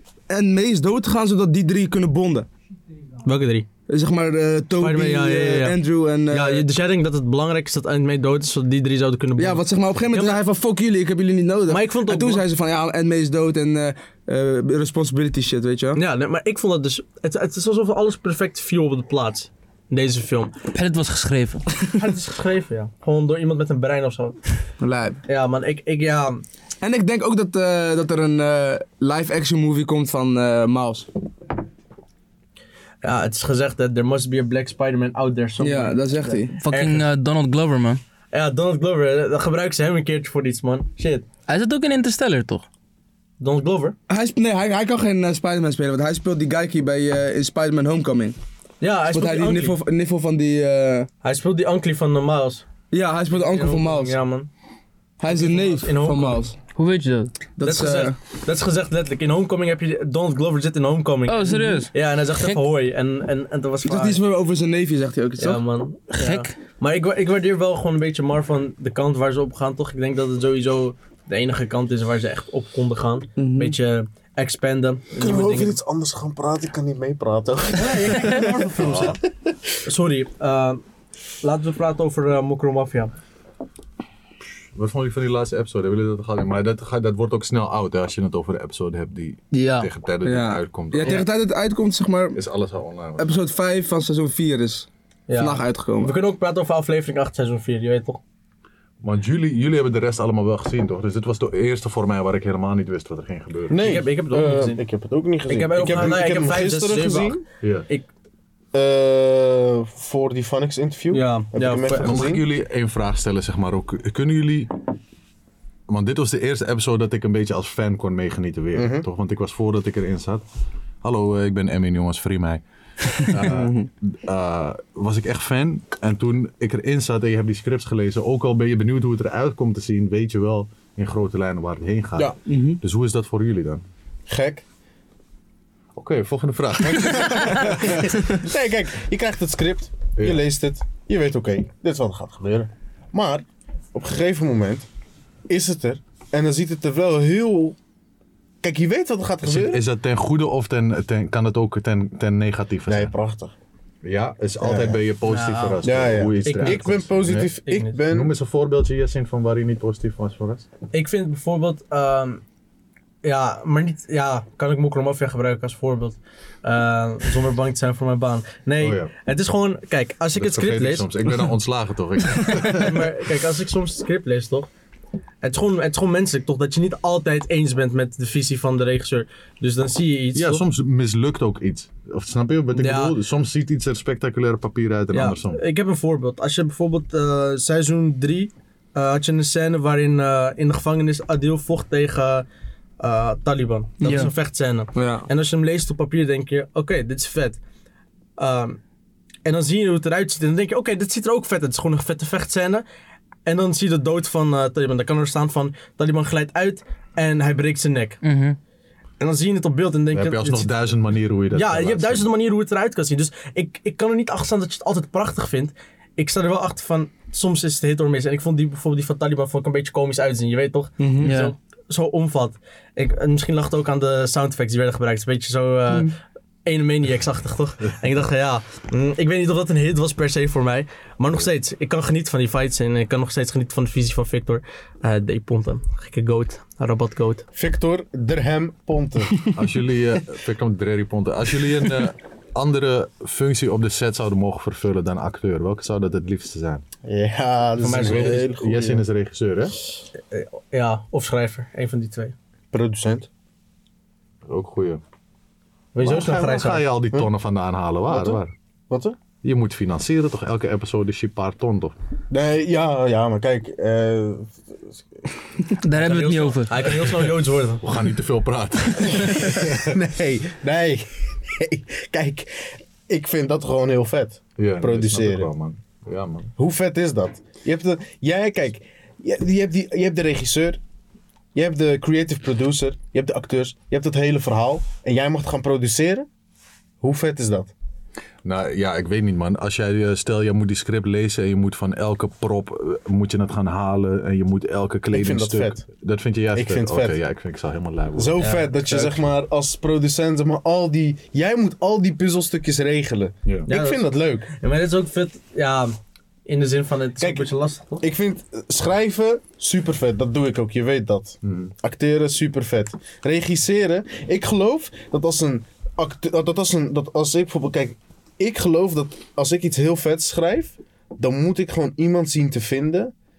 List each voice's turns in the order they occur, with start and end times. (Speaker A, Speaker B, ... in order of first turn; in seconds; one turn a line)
Speaker A: 0.3-2.5
Speaker B: 3.2-3.7
Speaker A: 3.9-6.6
Speaker B: 4.8-10.4
Speaker A: 9.4-16.0
Speaker B: 11.7-12.4
Speaker B: 15.9-20.6
Speaker C: 20.7-21.6
Speaker B: 21.9-24.4
Speaker A: 24.8-25.2
Speaker B: 25.2-26.4
Speaker A: 26.8-31.1
Speaker B: 33.0-36.0
Speaker A: 35.6-36.5
Speaker C: 36.5-38.0
Speaker B: 36.7-37.0
Speaker B: 38.3-41.2
Speaker C: 41.5-42.6
Speaker B: 43.4-44.0
Speaker A: 44.1-48.4
Speaker B: 48.8-49.8
Speaker A: 49.1-51.1
Speaker B: 51.2-52.6
Speaker A: 52.9-54.1
Speaker B: 53.3-54.5
Speaker A: 55.2-56.6
Speaker B: 55.2-56.4
Speaker C: 56.7-57.3
Speaker A: 57.6-58.1
Speaker B: 57.6-64.2
Speaker C: 61.2-62.6
Speaker A: 61.5-61.8
Speaker A: 63.8-65.6
Speaker B: 65.4-75.8
Speaker C: 66.1-66.5
Speaker A: 73.4-73.8
Speaker D: 75.2-79.5
Speaker B: 77.7-79.2
Speaker E: 78.8-79.2
Speaker B: 79.8-80.8
Speaker B: 81.4-83.1
Speaker E: 84.7-91.3
Speaker C: 89.5-89.9
Speaker A: 90.2-92.4
Speaker E: 92.3-93.3
Speaker A: 93.2-96.1
Speaker B: 95.3-98.2
Speaker E: 99.0-103.8
Speaker D: 103.7-107.4
Speaker B: 103.7-104.8
Speaker B: 105.5-108.1
Speaker D: 108.7-112.4
Speaker B: 111.1-112.2
Speaker E: 112.0-114.8
Speaker E: 115.9-120.4
Speaker D: 118.7-119.0
Speaker E: 121.0-133.8
Speaker A: 123.3-123.9
Speaker A: 132.5-132.8
Speaker D: 134.3-134.6
Speaker E: 135.9-138.3
Speaker D: 136.8-144.9
Speaker E: 140.2-140.4
Speaker D: 145.5-147.8
Speaker D: 148.6-149.8
Speaker E: 149.4-153.1
Speaker D: 152.9-153.5
Speaker E: 154.0-157.5
Speaker D: 154.6-155.0
Speaker B: 155.3-155.8
Speaker D: 155.8-158.3
Speaker B: 156.4-156.9
Speaker B: 157.6-158.0
Speaker E: 158.1-160.7
Speaker B: 160.9-162.4
Speaker B: 163.2-171.1
Speaker E: 168.8-169.1
Speaker E: 170.3-173.1
Speaker B: 172.5-174.7
Speaker B: 175.4-180.6
Speaker E: 180.3-185.6
Speaker B: 182.7-183.1
Speaker B: 185.1-192.4
Speaker B: 193.0-197.6
Speaker C: 194.0-194.3
Speaker A: 194.9-195.3
Speaker B: 198.4-198.8
Speaker B: 199.4-202.8
Speaker B: 203.4-208.2
Speaker C: 208.2-208.6
Speaker B: 209.2-210.7
Speaker E: 210.1-212.3
Speaker B: 211.5-237.4
Speaker A: 221.0-221.3
Speaker C: 221.2-221.5
Speaker D: 237.5-239.4
Speaker E: 239.5-246.8
Speaker D: 247.0-249.0
Speaker B: 247.8-248.4
Speaker E: 247.9-249.8
Speaker B: 250.3-252.3
Speaker D: 252.7-253.3
Speaker E: 254.5-255.0
Speaker B: 255.9-256.8
Speaker E: 256.0-258.5
Speaker D: 258.1-259.2
Speaker E: 259.4-261.9
Speaker D: 262.3-265.0
Speaker C: 265.7-266.8
Speaker B: 266.0-267.8
Speaker E: 267.8-269.9
Speaker D: 269.1-275.5
Speaker E: 274.6-276.5
Speaker D: 276.6-280.8
Speaker D: 281.5-286.3
Speaker D: 287.0-287.7
Speaker E: 288.4-299.3
Speaker D: 295.1-295.8
Speaker D: 296.5-297.2
Speaker D: 298.1-304.5
Speaker B: 298.4-298.6
Speaker B: 303.7-305.9
Speaker B: 306.4-308.1
Speaker D: 307.2-307.5
Speaker D: 308.0-323.1
Speaker E: 311.4-311.7